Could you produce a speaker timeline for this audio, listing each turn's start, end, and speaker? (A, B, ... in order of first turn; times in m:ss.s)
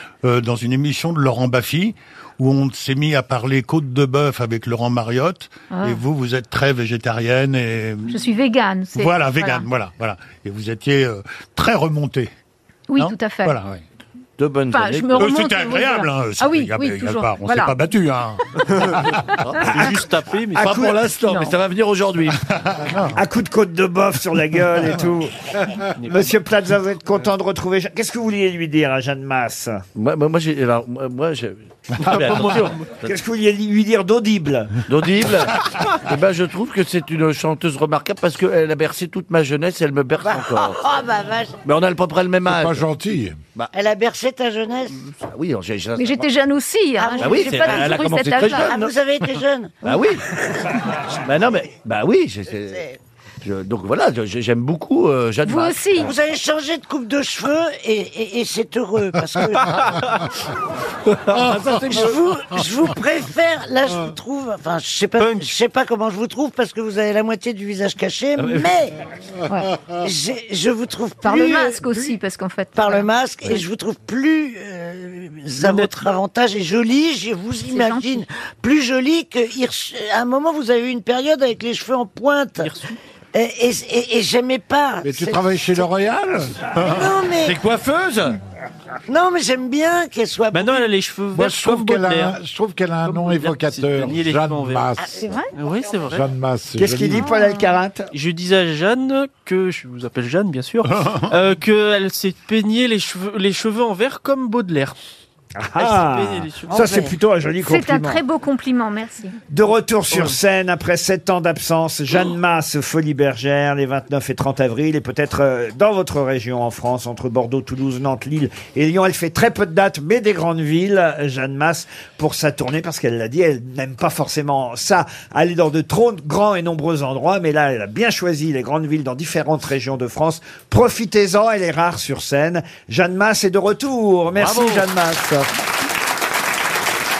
0:00.2-0:08.2 A
0:05.7-0:06.0 B
0:08.1-0:09.7 B
0:08.9-0:12.3 A
0:12.9-0:13.6 B
0:13.0-0:13.8 A
0:14.4-0:15.3 C
0:14.7-0:17.8 B
0:15.2-0:19.8 A
0:18.6-0:19.0 D
0:19.4-0:19.6 B
0:19.4-0:19.9 C
0:19.5-0:20.7 D
0:19.7-0:21.0 E
0:20.6-0:22.4 C
0:21.3-0:21.5 B
0:22.3-0:23.2 A
0:23.1-0:25.4 E
0:26.0-0:26.3 D
0:26.0-0:29.8 E
0:30.0-0:33.0 C
0:32.0-0:32.9 D
0:33.0-0:34.8 E
0:34.9-0:40.8 C
0:40.2-0:41.5 F
0:41.6-0:42.9 C
0:42.4-0:43.4 G
0:43.7-0:45.0 F
0:45.1-0:46.3 C
0:46.0-0:48.6 B
0:47.0-0:47.9 F
0:47.2-0:49.0 C
0:48.5-0:49.9 F
0:49.8-0:50.3 C
0:51.1-0:52.8 C
0:53.4-0:56.1 C
0:55.4-0:56.1 B
0:56.0-0:59.9 F
1:01.3-1:01.8 C
1:01.4-1:02.0 G
1:01.8-1:09.0 F
1:05.2-1:05.5 D
1:09.9-1:12.1 F
1:11.2-1:13.6 B
1:12.7-1:22.8 F
1:15.6-1:16.0 D
1:17.6-1:18.2 B
1:22.6-1:23.0 D
1:23.3-1:25.8 F
1:25.0-1:26.5 G
1:26.8-1:28.4 C
1:26.8-1:27.6 F
1:29.1-1:30.9 F
1:30.5-1:32.4 D
1:31.3-1:35.4 G
1:33.0-1:34.9 D
1:35.0-1:35.4 F
1:35.5-1:36.3 D
1:36.1-1:37.2 G
1:36.8-1:38.1 E
1:37.2-1:37.7 B
1:38.1-1:45.0 D
1:40.9-1:41.3 A
1:45.6-1:48.2 E
1:45.8-1:46.8 D
1:46.7-1:47.1 F
1:47.6-1:49.4 B
1:49.5-2:15.5 E
2:14.3-2:14.8 C